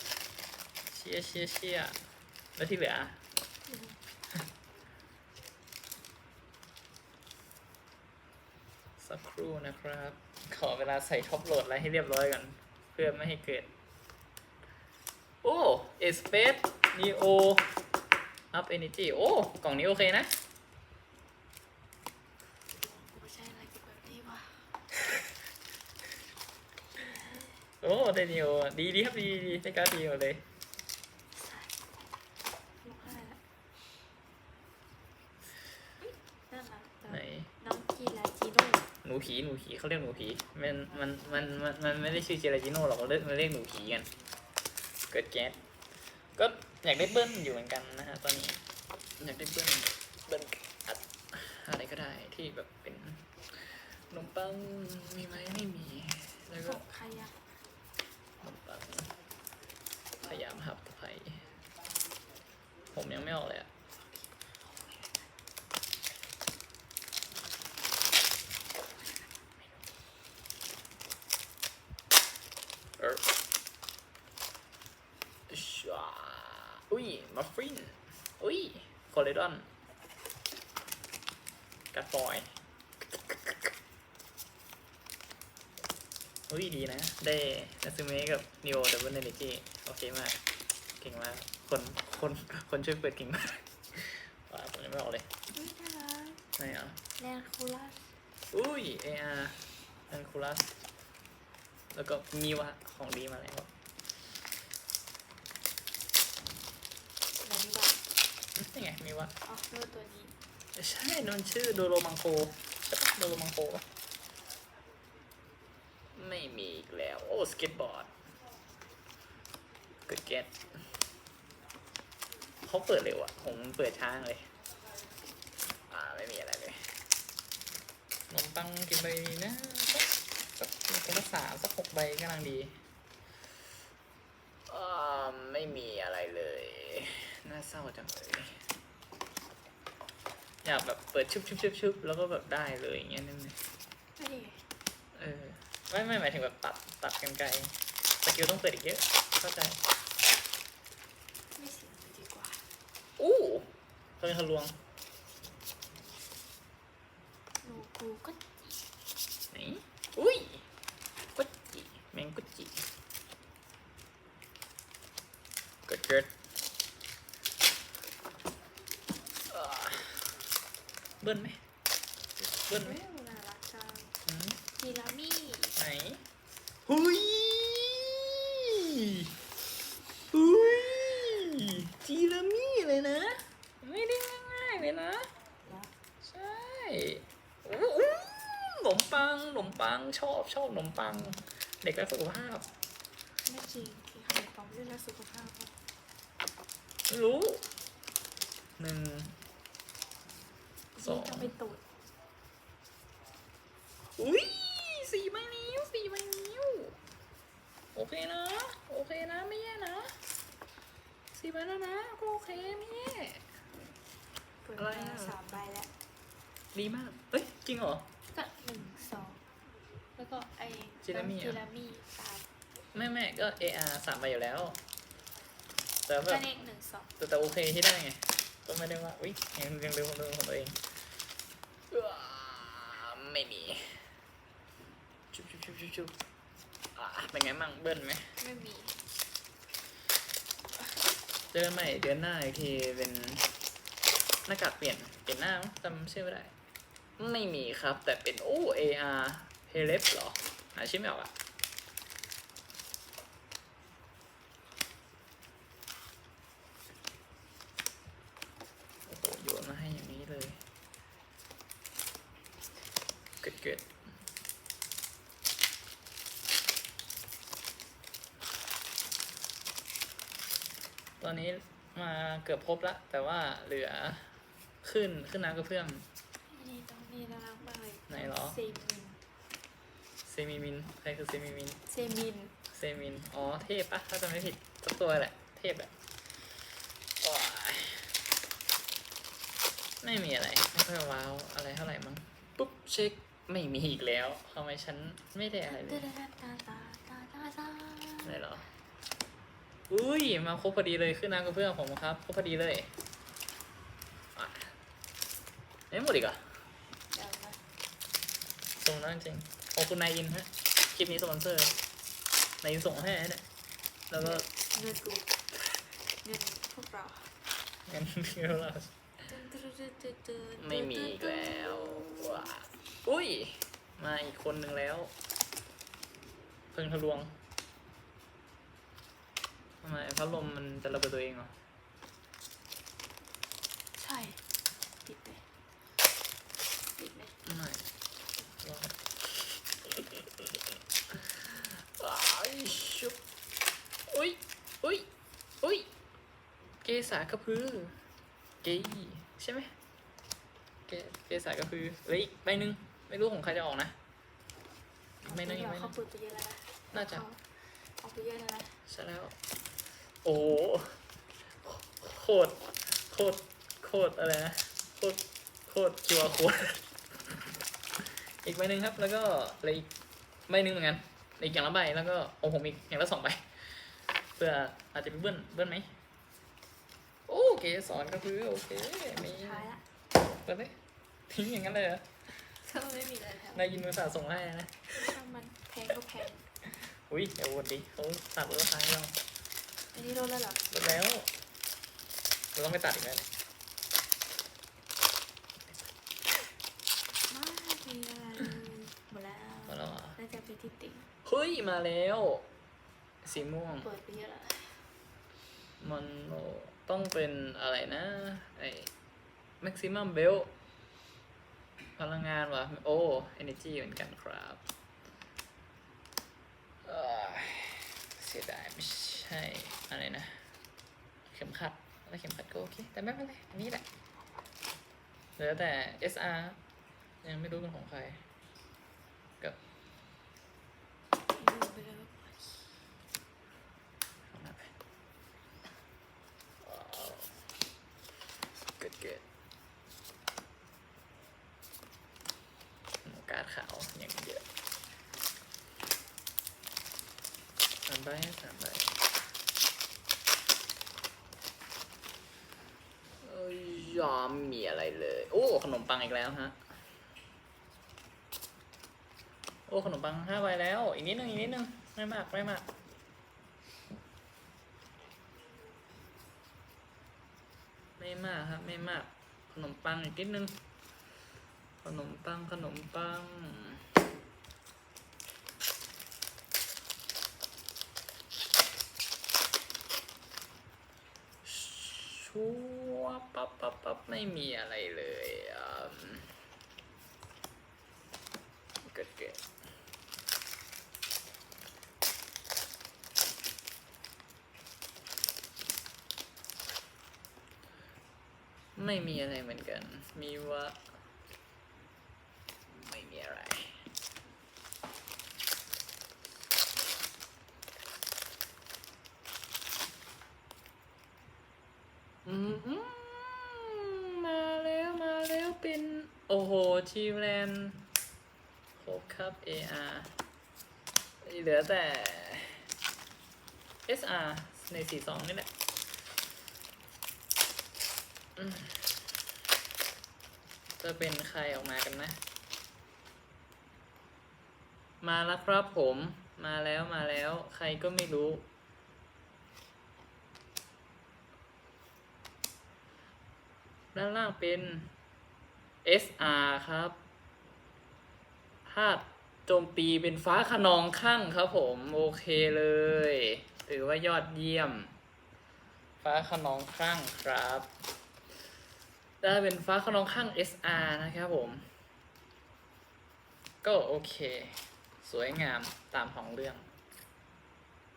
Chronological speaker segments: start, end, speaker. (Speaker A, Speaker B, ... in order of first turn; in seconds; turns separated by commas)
Speaker A: 0.9-2.0, Speaker A: 2.6-3.2, Speaker B: 3.7-4.0, Speaker A: 9.0-13.7, Speaker A: 15.4-17.7, Speaker A: 18.5-20.4, Speaker B: 22.7-24.8, Speaker B: 26.9-27.6, Speaker A: 27.8-30.4, Speaker B: 31.4-31.8, Speaker B: 32.8-33.4, Speaker B: 36.0-38.9, Speaker A: 37.1-37.5, Speaker A: 39.0-44.1, Speaker A: 45.1-45.6, Speaker A: 46.4-48.6, Speaker A: 49.2-56.8, Speaker B: 56.6-57.5, Speaker A: 58.4-59.1, Speaker A: 60.2-61.5, Speaker A: 62.9-63.7, Speaker A: 73.0-73.2, Speaker A: 75.5-79.7, Speaker A: 81.9-82.5, Speaker A: 83.2-83.7, Speaker A: 86.5-90.4, Speaker A: 91.0-95.3, Speaker B: 95.5-96.4, Speaker A: 96.6-97.0, Speaker B: 97.2-98.1, Speaker A: 98.5-100.7, Speaker A: 101.9-103.7, Speaker B: 107.4-108.0, Speaker A: 108.6-109.3, Speaker B: 109.4-110.3, Speaker A: 110.8-113.8, Speaker A: 116.1-118.2, Speaker A: 120.1-120.5, Speaker A: 122.6-124.5, Speaker A: 125.9-126.9, Speaker A: 128.3-132.8, Speaker A: 134.7-138.6, Speaker A: 140.6-143.6, Speaker B: 144.2-144.7, Speaker A: 145.2-149.8, Speaker B: 151.5-152.7, Speaker A: 153.2-154.8, Speaker B: 157.6-158.9, Speaker A: 159.5-160.7, Speaker A: 161.3-162.8, Speaker A: 165.9-166.3, Speaker A: 169.5-170.3, Speaker A: 171.2-171.6, Speaker A: 172.4-173.0, Speaker B: 172.7-174.2, Speaker A: 174.3-174.6, Speaker B: 174.8-175.8, Speaker A: 175.8-176.2, Speaker A: 176.9-179.3, Speaker A: 180.3-185.3, Speaker B: 185.7-185.9, Speaker A: 186.2-192.7, Speaker B: 193.4-195.8, Speaker A: 197.1-197.7, Speaker A: 198.8-199.4, Speaker B: 200.9-201.8, Speaker A: 201.0-201.5, Speaker A: 204.2-207.0, Speaker A: 207.9-210.2, Speaker A: 211.3-213.5, Speaker B: 214.6-215.9, Speaker A: 214.8-215.4, Speaker A: 216.7-218.1, Speaker B: 218.3-219.4, Speaker B: 220.2-222.5, Speaker A: 221.1-221.6, Speaker A: 222.9-224.8, Speaker A: 226.1-226.5, Speaker B: 226.3-227.1, Speaker A: 227.2-230.8, Speaker A: 231.9-234.0, Speaker A: 235.3-236.2, Speaker A: 236.9-238.4, Speaker B: 238.4-239.0, Speaker A: 241.5-243.6, Speaker A: 244.5-246.5, Speaker A: 247.2-251.3, Speaker A: 259.1-260.6, Speaker A: 263.4-263.9, Speaker A: 271.2-276.1, Speaker B: 276.5-279.2, Speaker A: 278.1-278.6, Speaker A: 280.2-281.8, Speaker B: 281.9-282.6, Speaker A: 282.7-285.9, Speaker A: 287.2-288.1, Speaker A: 290.0-296.1, Speaker B: 295.7-298.4, Speaker A: 298.2-298.7, Speaker A: 299.9-302.9, Speaker A: 304.4-304.7, Speaker A: 305.9-306.4, Speaker B: 307.1-307.6, Speaker A: 308.8-311.8, Speaker A: 312.6-313.4, Speaker A: 314.1-314.5, Speaker B: 314.2-315.4, Speaker B: 316.2-317.3, Speaker A: 317.9-318.9, Speaker B: 319.2-322.6, Speaker A: 320.6-325.1, Speaker A: 326.7-327.4, Speaker A: 329.8-331.5, Speaker B: 334.0-334.4, Speaker B: 335.1-335.4, Speaker B: 336.9-337.4, Speaker A: 337.4-337.9, Speaker A: 338.5-340.5, Speaker A: 341.1-343.2, Speaker A: 344.1-345.1, Speaker A: 345.6-345.9, Speaker A: 346.8-348.0, Speaker A: 348.6-349.8, Speaker A: 350.9-354.0, Speaker B: 355.2-358.8, Speaker A: 355.3-355.9, Speaker A: 356.9-357.2, Speaker A: 358.9-359.4, Speaker A: 360.1-361.0, Speaker A: 361.6-367.4, Speaker A: 368.0-369.9, Speaker A: 370.5-376.0, Speaker A: 377.3-379.7, Speaker B: 379.1-379.8, Speaker A: 380.3-380.8, Speaker A: 381.3-382.1, Speaker B: 382.6-383.7, Speaker A: 383.5-385.1, Speaker B: 384.9-386.4, Speaker A: 386.6-389.2, Speaker B: 389.9-390.6, Speaker A: 390.7-391.3, Speaker A: 392.6-393.3, Speaker B: 397.3-401.1, Speaker A: 399.7-400.2, Speaker A: 401.2-402.5, Speaker A: 403.2-403.9, Speaker B: 403.8-404.9, Speaker A: 405.8-408.9, Speaker A: 409.6-410.5, Speaker A: 412.0-414.6, Speaker A: 416.9-420.5, Speaker A: 421.3-423.9, Speaker A: 425.4-426.6, Speaker A: 427.2-428.2, Speaker B: 431.3-432.9, Speaker A: 434.3-434.7, Speaker A: 436.6-437.5, Speaker A: 438.8-439.2, Speaker A: 443.0-444.4, Speaker A: 447.9-448.9, Speaker A: 453.2-456.6, Speaker A: 459.7-462.7, Speaker A: 468.0-470.6, Speaker A: 471.8-473.9, Speaker A: 481.4-486.3, Speaker A: 488.9-489.4, Speaker A: 498.8-501.0, Speaker A: 502.7-503.9, Speaker A: 512.2-517.9, Speaker A: 518.8-520.2, Speaker A: 521.2-522.6, Speaker A: 523.9-525.5, Speaker A: 528.4-529.0, Speaker A: 530.8-532.2, Speaker A: 535.0-538.5, Speaker A: 544.0-544.9, Speaker A: 545.9-547.0, Speaker A: 548.7-555.0, Speaker A: 556.0-557.7, Speaker A: 559.2-561.7, Speaker A: 563.6-566.7